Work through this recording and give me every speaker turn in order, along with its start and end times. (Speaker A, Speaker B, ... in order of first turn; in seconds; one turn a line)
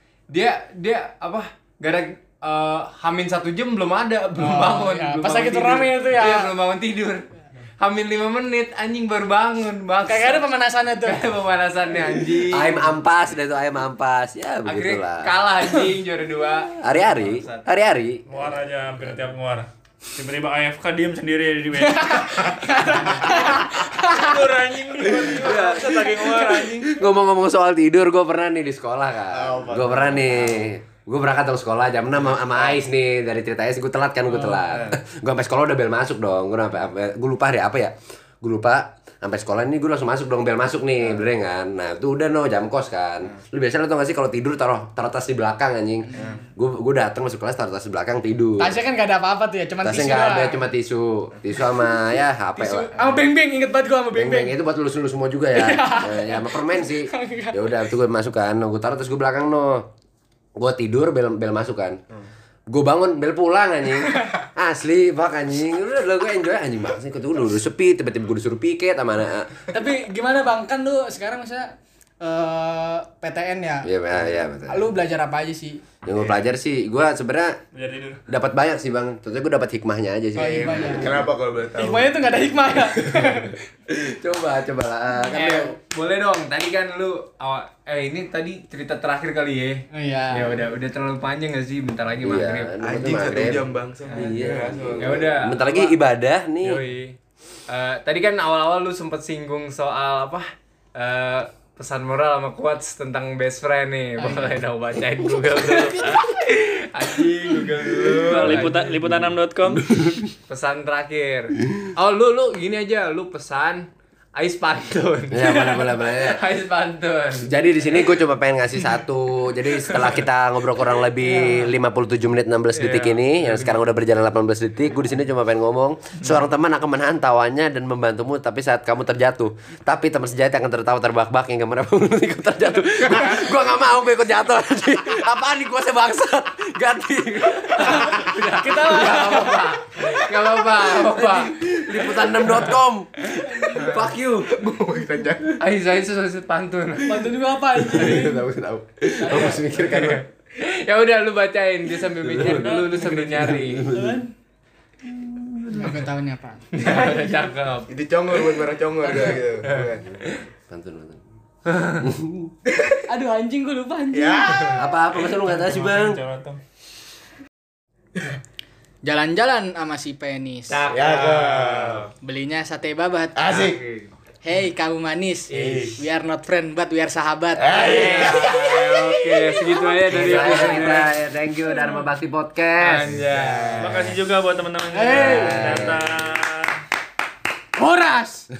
Speaker A: 0.3-10.5
Speaker B: 4.4-6.5
Speaker B: 10.0-11.3
Speaker A: 11.0-12.9
Speaker C: 12.3-15.3
Speaker A: 14.7-17.6
Speaker C: 16.8-18.2
Speaker D: 18.3-22.4
Speaker B: 21.8-25.2
Speaker D: 23.2-26.9
Speaker C: 25.0-48.8
Speaker B: 26.2-26.5
Speaker E: 29.3-30.7
Speaker E: 32.4-32.8
Speaker E: 34.7-35.0
Speaker E: 46.1-46.4
Speaker B: 48.6-50.6
Speaker C: 49.8-52.9
Speaker B: 52.5-54.5
Speaker C: 54.1-59.9
Speaker B: 55.5-57.7
Speaker C: 60.6-62.0
Speaker C: 62.7-69.6
Speaker B: 64.1-64.3
Speaker B: 69.7-73.9
Speaker C: 73.8-74.9
Speaker B: 74.7-75.8
Speaker C: 76.0-77.6
Speaker D: 77.7-78.2
Speaker C: 78.3-81.3
Speaker B: 80.3-81.1
Speaker E: 80.5-82.1
Speaker B: 81.8-83.6
Speaker C: 83.0-85.7
Speaker B: 85.3-85.8
Speaker A: 85.3-92.8
Speaker B: 89.9-90.6
Speaker C: 92.2-93.6
Speaker E: 92.8-95.4
Speaker C: 94.1-96.8
Speaker A: 94.9-96.0
Speaker A: 96.6-97.2
Speaker A: 97.7-109.0
Speaker E: 107.6-108.4
Speaker D: 108.2-109.8
Speaker C: 109.7-110.3
Speaker A: 110.5-117.5
Speaker C: 115.3-116.4
Speaker C: 117.4-144.7
Speaker A: 121.3-121.6
Speaker A: 122.7-123.8
Speaker A: 137.7-142.1
Speaker B: 138.5-139.7
Speaker A: 143.3-144.1
Speaker E: 144.5-145.6
Speaker A: 145.6-147.4
Speaker B: 147.0-148.4
Speaker C: 147.7-150.2
Speaker B: 149.2-149.8
Speaker A: 149.9-153.9
Speaker C: 152.2-154.2
Speaker D: 152.4-153.5
Speaker B: 153.9-154.3
Speaker A: 155.6-156.0
Speaker B: 155.7-156.8
Speaker A: 156.7-157.9
Speaker E: 157.9-160.2
Speaker C: 160.7-161.2
Speaker A: 161.7-162.1
Speaker C: 162.0-162.5
Speaker E: 162.7-163.0
Speaker B: 163.1-164.9
Speaker E: 164.1-164.9
Speaker C: 164.8-166.2
Speaker D: 165.4-166.6
Speaker B: 169.0-170.8
Speaker A: 170.7-172.1
Speaker E: 170.9-172.1
Speaker B: 172.2-173.6
Speaker E: 173.3-174.0
Speaker B: 174.4-178.4
Speaker A: 175.5-175.9
Speaker E: 175.5-176.0
Speaker E: 177.6-179.7
Speaker A: 177.7-181.1
Speaker C: 180.1-183.2
Speaker A: 182.8-183.9
Speaker E: 183.1-184.2
Speaker D: 183.8-186.8
Speaker B: 184.9-185.7
Speaker C: 185.1-186.1
Speaker A: 187.8-188.5